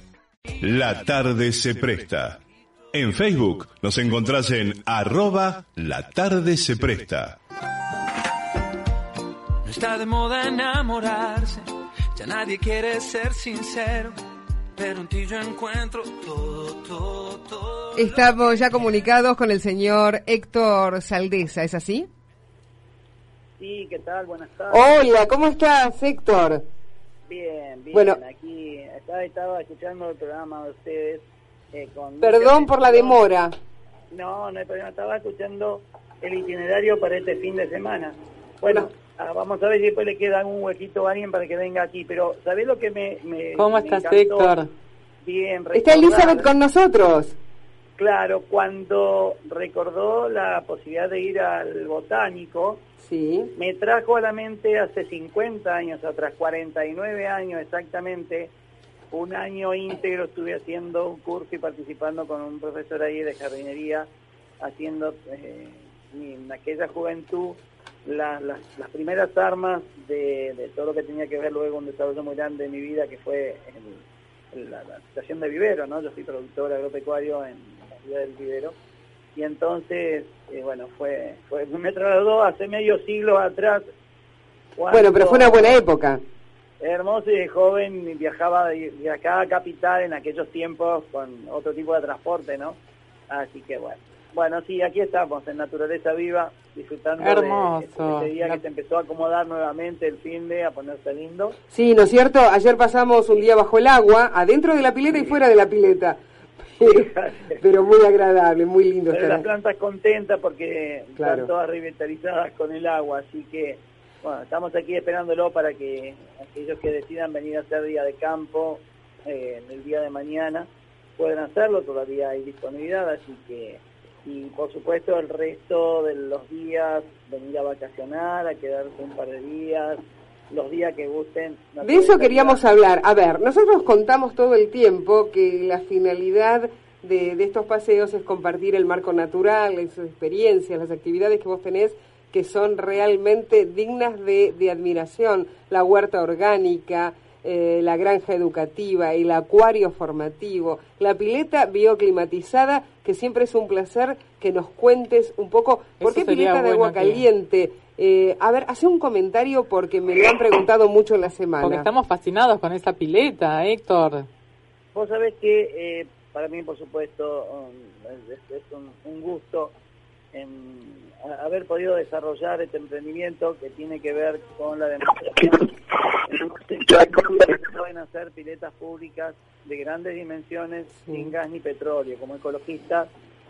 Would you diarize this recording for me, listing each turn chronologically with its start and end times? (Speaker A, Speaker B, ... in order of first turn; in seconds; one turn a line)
Speaker A: 0.6-2.4
Speaker A: 2.9-7.4
Speaker B: 9.6-14.2
Speaker B: 14.8-17.8
Speaker C: 17.9-22.1
Speaker D: 23.6-25.1
Speaker C: 24.7-26.6
Speaker D: 27.3-33.2
Speaker C: 27.9-28.2
Speaker C: 32.2-33.5
Speaker D: 34.1-44.5
Speaker E: 43.6-44.7
Speaker D: 45.2-46.5
Speaker C: 45.7-47.4
Speaker D: 48.0-52.8
Speaker C: 53.0-53.5
Speaker D: 53.6-58.5
Speaker D: 59.1-64.1
Speaker D: 64.6-78.8
Speaker D: 79.4-83.8
Speaker D: 84.8-85.8
Speaker C: 84.9-86.2
Speaker D: 86.8-92.8
Speaker D: 93.3-101.5
Speaker E: 97.2-98.6
Speaker C: 101.7-106.2
Speaker C: 106.8-109.5
Speaker D: 106.8-107.6
Speaker D: 109.1-132.6
Speaker C: 111.2-111.5
Speaker C: 131.8-161.9
Speaker E: 156.0-157.3
Speaker E: 161.6-164.3
Speaker D: 164.9-169.7
Speaker D: 170.3-183.1
Speaker C: 180.9-181.3